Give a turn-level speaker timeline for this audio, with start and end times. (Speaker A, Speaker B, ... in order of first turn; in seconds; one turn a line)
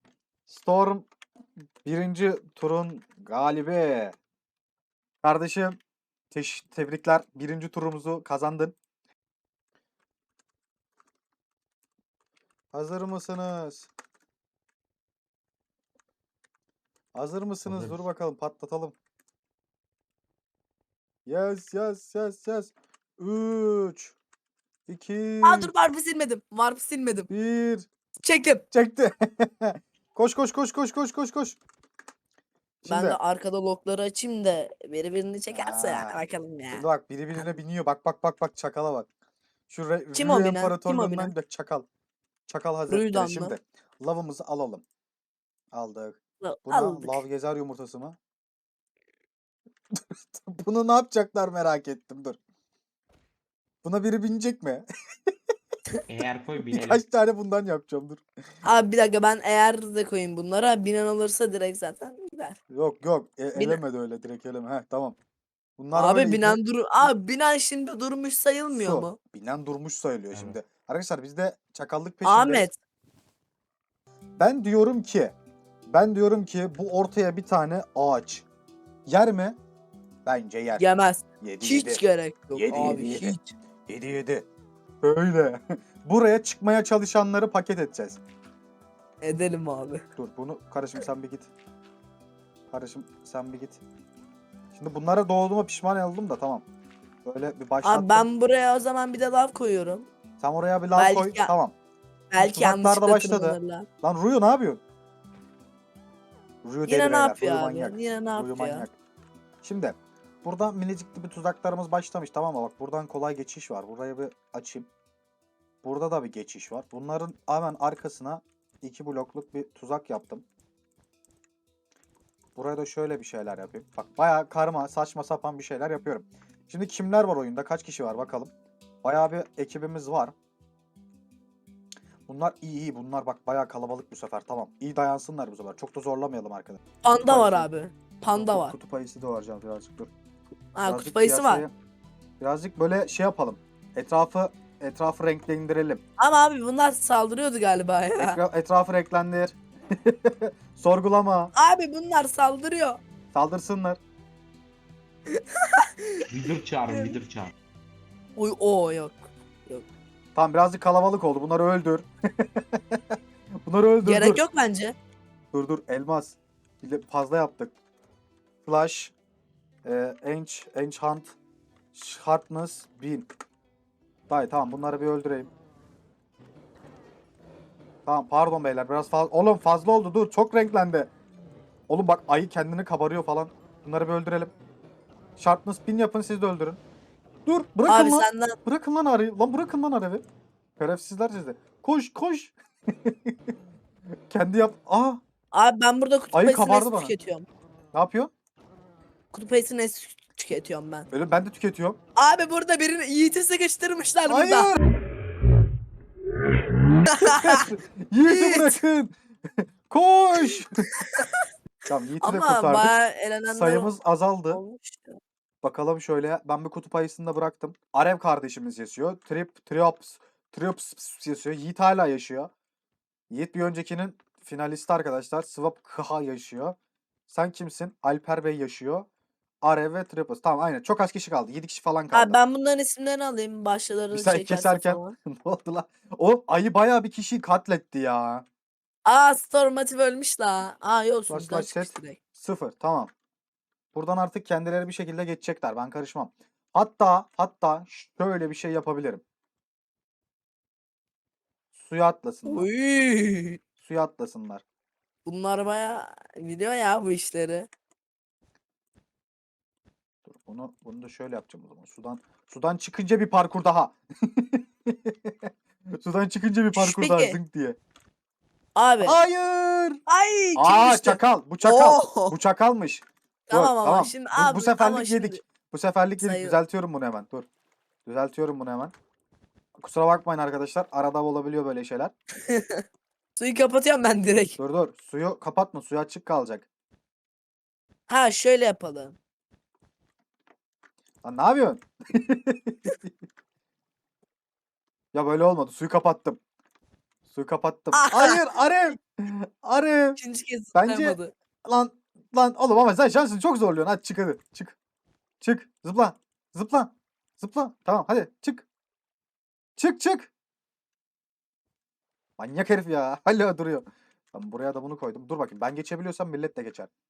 Speaker A: 0.5-1.1
Speaker A: 1.8-4.2
Speaker A: 5.2-5.8
Speaker A: 6.3-8.8
Speaker A: 12.7-13.9
Speaker A: 17.1-18.9
Speaker B: 17.6-18.0
Speaker A: 21.3-24.2
Speaker A: 24.9-25.7
Speaker C: 25.4-27.3
Speaker A: 27.3-27.9
Speaker C: 28.2-28.6
Speaker A: 28.7-31.6
Speaker A: 32.8-33.2
Speaker C: 32.9-37.5
Speaker A: 35.5-36.2
Speaker A: 36.7-39.1
Speaker A: 39.7-41.9
Speaker C: 40.1-41.4
Speaker A: 42.5-44.8
Speaker C: 42.9-43.5
Speaker A: 45.7-48.2
Speaker C: 46.4-47.2
Speaker A: 50.3-52.4
Speaker A: 53.8-54.9
Speaker B: 56.1-57.0
Speaker A: 56.6-58.2
Speaker C: 58.6-62.6
Speaker A: 62.7-65.2
Speaker C: 63.6-63.8
Speaker A: 65.8-67.1
Speaker C: 65.9-69.2
Speaker A: 68.7-72.7
Speaker B: 70.3-70.6
Speaker C: 72.2-72.8
Speaker A: 74.4-75.3
Speaker A: 75.9-78.5
Speaker A: 79.1-79.6
Speaker A: 80.3-80.8
Speaker C: 80.8-83.5
Speaker A: 81.4-82.0
Speaker A: 82.5-84.5
Speaker A: 85.0-88.2
Speaker C: 89.2-90.0
Speaker A: 90.2-91.5
Speaker A: 92.7-93.8
Speaker A: 94.7-96.7
Speaker A: 97.2-98.3
Speaker C: 97.8-100.1
Speaker A: 100.4-101.8
Speaker C: 101.0-101.5
Speaker C: 102.3-103.9
Speaker A: 102.4-104.8
Speaker A: 106.6-108.9
Speaker C: 106.8-108.8
Speaker A: 109.6-114.9
Speaker A: 115.8-120.5
Speaker A: 122.6-128.5
Speaker A: 129.0-130.3
Speaker A: 132.3-137.7
Speaker C: 137.0-138.8
Speaker A: 138.3-140.1
Speaker C: 140.8-141.6
Speaker A: 140.8-141.7
Speaker A: 142.4-146.0
Speaker C: 146.2-148.4
Speaker A: 148.2-151.5
Speaker C: 151.6-153.0
Speaker A: 153.3-154.0
Speaker C: 155.3-156.3
Speaker B: 156.3-157.5
Speaker C: 156.9-157.2
Speaker C: 158.4-159.8
Speaker A: 160.3-164.4
Speaker C: 164.0-164.9
Speaker A: 165.5-167.7
Speaker A: 168.6-169.1
Speaker A: 169.8-171.4
Speaker A: 171.9-173.3
Speaker A: 174.3-175.5
Speaker A: 178.1-181.1
Speaker A: 181.9-184.5
Speaker A: 185.4-186.8
Speaker A: 187.5-190.2
Speaker C: 187.9-188.6
Speaker A: 190.8-193.5
Speaker A: 194.3-195.2
Speaker C: 195.5-197.5
Speaker A: 196.3-197.1
Speaker A: 197.9-198.3
Speaker C: 199.3-201.1
Speaker A: 201.1-202.0
Speaker C: 202.2-204.7
Speaker A: 204.3-204.9
Speaker C: 207.1-207.7
Speaker A: 207.2-211.0
Speaker C: 208.2-208.8
Speaker C: 210.9-211.5
Speaker A: 211.9-213.0
Speaker C: 212.2-213.9
Speaker A: 213.5-214.6
Speaker C: 214.5-215.2
Speaker A: 215.6-222.5
Speaker A: 223.3-226.8
Speaker A: 227.3-229.1
Speaker A: 229.6-232.4
Speaker C: 232.1-235.2
Speaker A: 234.1-238.4
Speaker C: 239.1-242.2
Speaker A: 241.3-243.1
Speaker A: 243.9-249.2
Speaker A: 251.7-252.7
Speaker C: 252.5-253.6
Speaker A: 253.8-254.6
Speaker C: 255.3-257.7
Speaker A: 260.3-267.8
Speaker C: 266.8-267.4
Speaker C: 268.8-269.2
Speaker A: 269.0-270.0
Speaker C: 270.1-272.4
Speaker A: 270.6-277.5
Speaker C: 273.5-275.4
Speaker C: 276.2-276.6
Speaker A: 278.1-278.9
Speaker A: 279.8-282.1
Speaker C: 282.5-282.8
Speaker C: 283.4-284.6
Speaker A: 284.6-286.7
Speaker C: 288.1-289.2
Speaker A: 291.2-293.1
Speaker A: 295.1-296.4
Speaker A: 297.3-300.2
Speaker C: 297.9-298.4
Speaker C: 300.2-301.3
Speaker A: 300.8-304.8
Speaker A: 305.4-308.7
Speaker A: 309.8-310.3
Speaker A: 312.4-316.9